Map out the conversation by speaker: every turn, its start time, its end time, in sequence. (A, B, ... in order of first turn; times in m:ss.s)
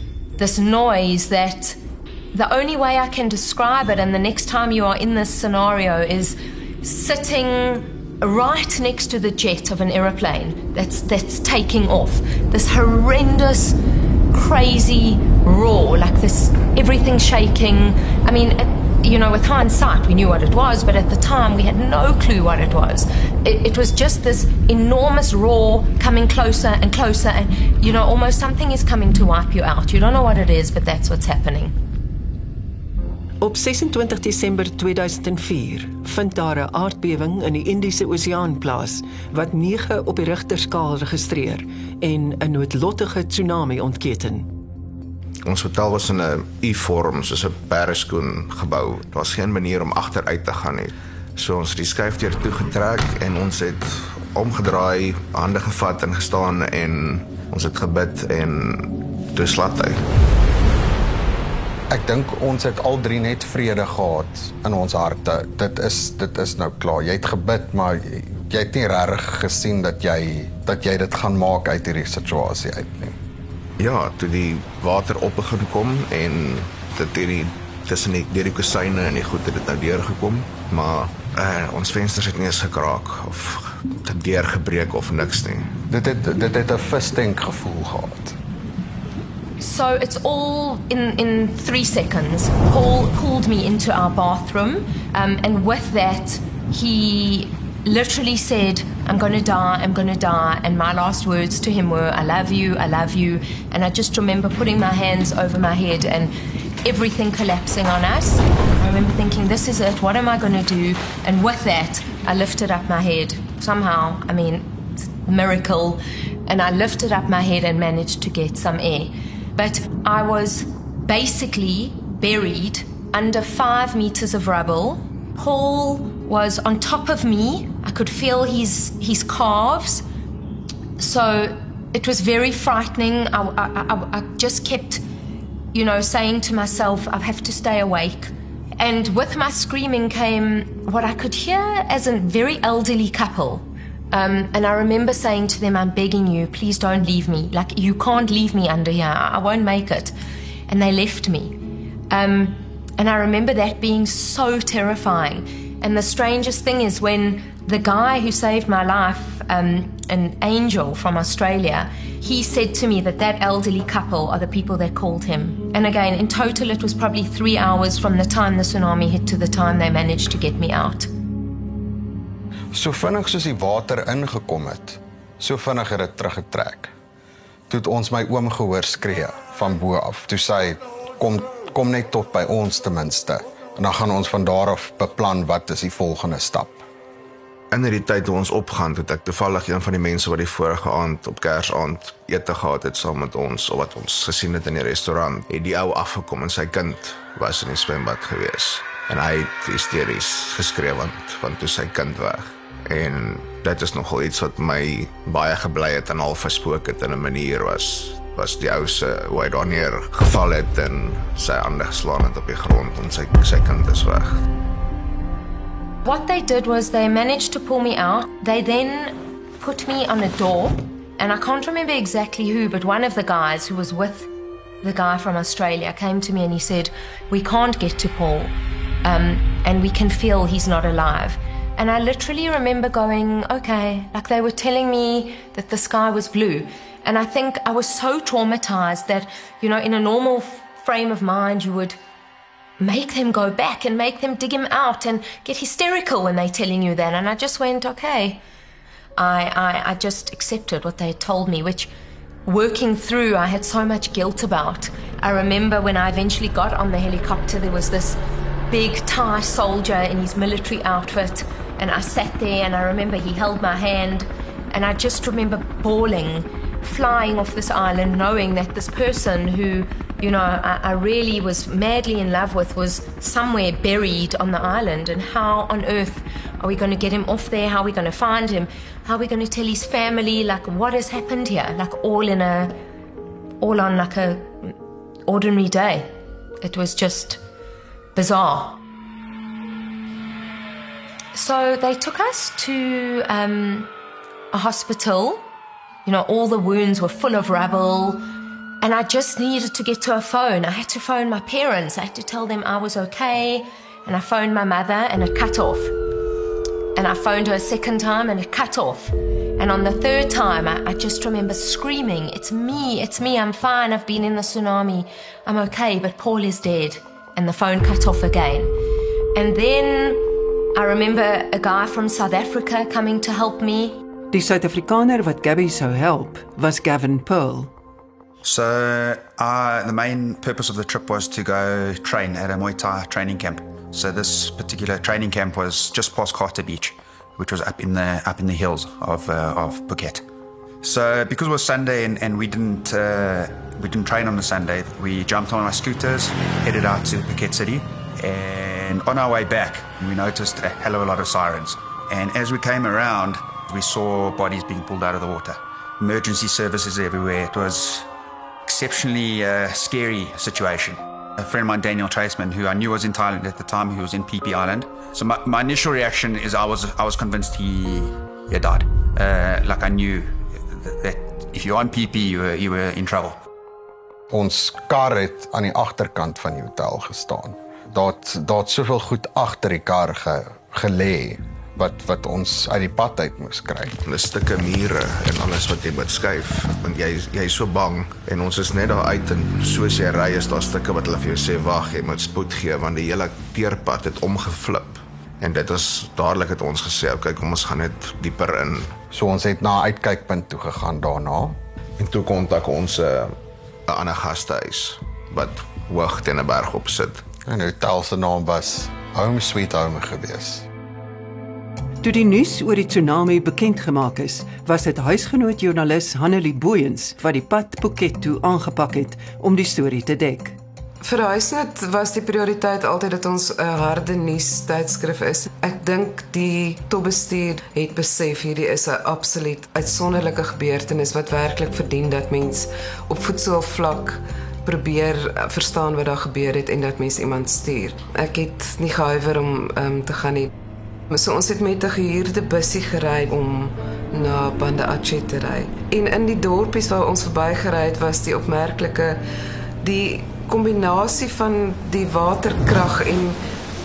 0:00.4-0:01.8 A
0:02.3-0:13.8 A
0:14.3-0:31.8 A
0:33.4-0:44.5 B
0:45.4-1:00.0 C
1:01.9-1:13.2 D
1:13.8-1:25.7 C
1:25.9-1:28.4 D
1:29.6-1:54.7 A
1:55.2-2:10.0 A
2:11.0-2:15.0 A
2:15.7-2:30.1 A
2:30.7-2:31.6 A
2:32.1-2:51.1 A
2:52.7-2:56.9 D
2:57.7-3:06.8 D
3:07.7-3:34.4 C
3:36.0-3:44.3 A
3:44.8-4:02.0 A
4:02.8-4:08.4 A
4:09.2-4:11.9 A
4:12.5-4:18.2 A
4:18.7-4:42.8 A
4:43.6-4:44.7 A
4:45.3-4:46.1 A
4:46.6-4:47.4 A
4:48.2-4:48.8 A
4:51.3-4:53.9 A
4:54.5-4:55.4 A
4:56.0-4:58.3 A
4:58.8-5:05.9 A
5:07.0-5:18.7 A
5:19.4-5:20.2 A
5:20.8-5:24.0 A
5:24.3-5:27.7 B
5:28.4-5:40.2 E
5:40.8-5:58.1 E
5:58.7-6:13.4 E
6:14.3-6:24.0 D
6:24.0-6:39.0 C
6:39.1-6:41.6 D
6:42.0-6:47.2 C
6:47.4-6:50.7 D
6:52.0-7:00.6 B
7:01.0-7:20.5 F
7:21.1-7:29.2 F
7:29.8-7:33.4 F